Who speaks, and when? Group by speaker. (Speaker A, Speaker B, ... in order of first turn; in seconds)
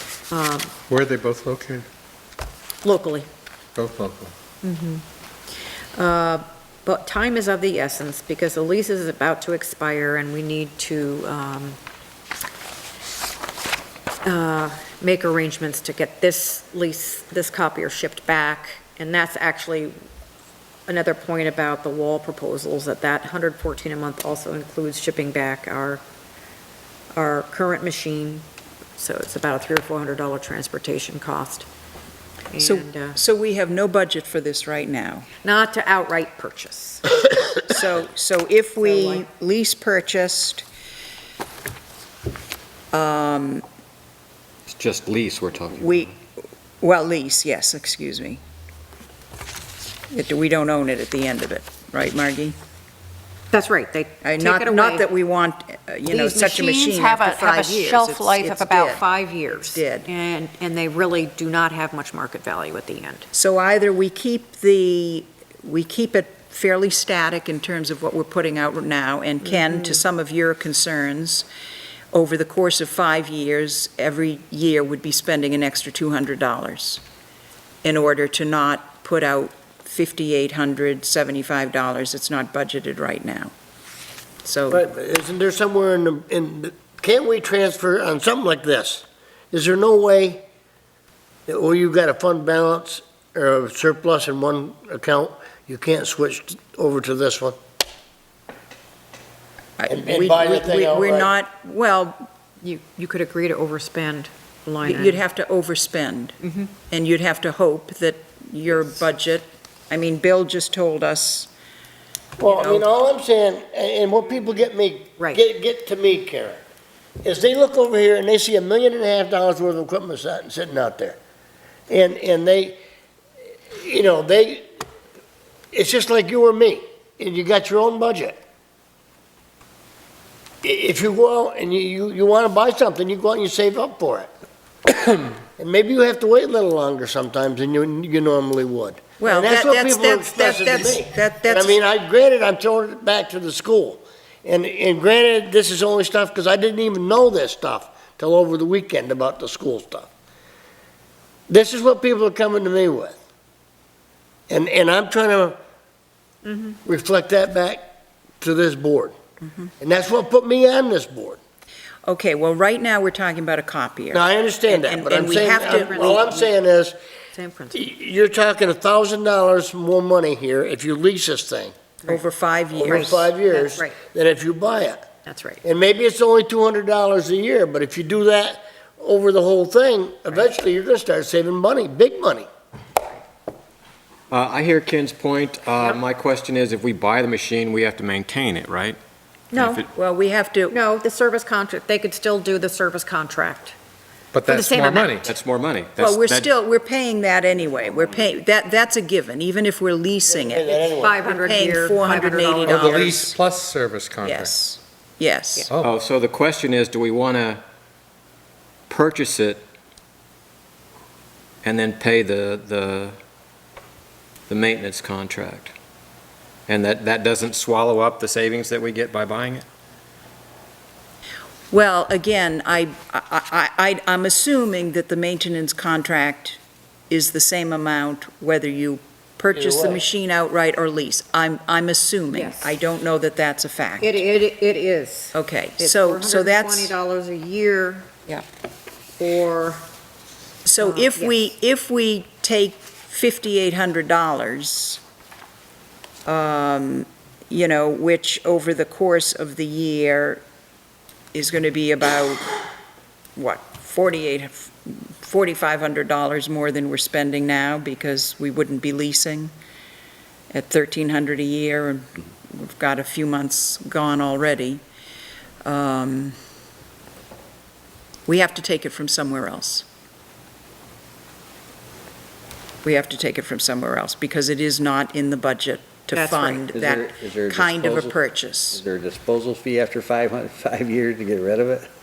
Speaker A: 0.3-0.7, 2.8-3.3, 4.6-5.0, 6.0-11.8, 14.2-19.9, 20.9-26.0, 27.1-28.4, 29.0-31.7, 32.5-33.2, 35.4-37.1, 38.8-39.3, 53.5-55.1, 56.1-63.3, 69.5-70.0, 102.6-105.2, 106.4-106.7, 165.2-166.5, 167.3-167.8, 173.2-174.0, 175.2-175.6, 189.5-189.8, 190.7-193.8, 194.5-195.2, 200.9-203.1, 232.3-232.7, 234.0-238.4, 239.2-239.9, 240.8-241.4, 276.1-276.7
Speaker B: 0.9-1.9, 3.8-4.3, 194.3-195.3, 202.7-204.6
Speaker C: 32.6-35.3, 37.6-40.6, 42.9-43.6, 45.8-46.2, 46.8-48.4, 50.1-52.5, 54.2-59.0, 59.5-60.1, 63.3-71.5, 72.1-77.0, 77.8-83.5, 84.4-84.8, 99.8-102.3, 104.8-106.4, 106.9-111.5, 112.5-112.9, 139.2-141.8, 162.1-166.3, 172.1-173.3, 189.9-190.8, 196.0-203.4, 204.2-205.7, 221.7-234.2, 235.3-236.9, 240.7-245.0, 246.3-250.4, 251.3-252.6, 253.3-259.5, 260.5-264.8, 265.6-266.3, 268.3-269.8, 272.8-278.8
Speaker D: 44.7-46.1, 184.3-189.0, 189.5-189.9, 195.2-196.5, 205.8-207.6, 208.9-209.6, 211.6-213.2, 214.5-215.7, 216.7-219.7
Speaker E: 84.7-90.4, 91.5-97.6, 99.9-101.3, 112.4-116.6, 117.2-121.2, 121.9-122.8, 123.7-124.7, 125.7-128.4, 130.6-134.3, 135.6-150.1, 151.5-153.2, 154.5-155.6, 156.8-157.9, 158.4-159.2, 159.8-161.4, 164.1-167.0, 167.7-171.7, 172.8-175.1, 175.6-182.5, 200.2-201.3, 229.5-230.0
Speaker F: 197.7-198.3, 276.7-278.2, 278.7-281.9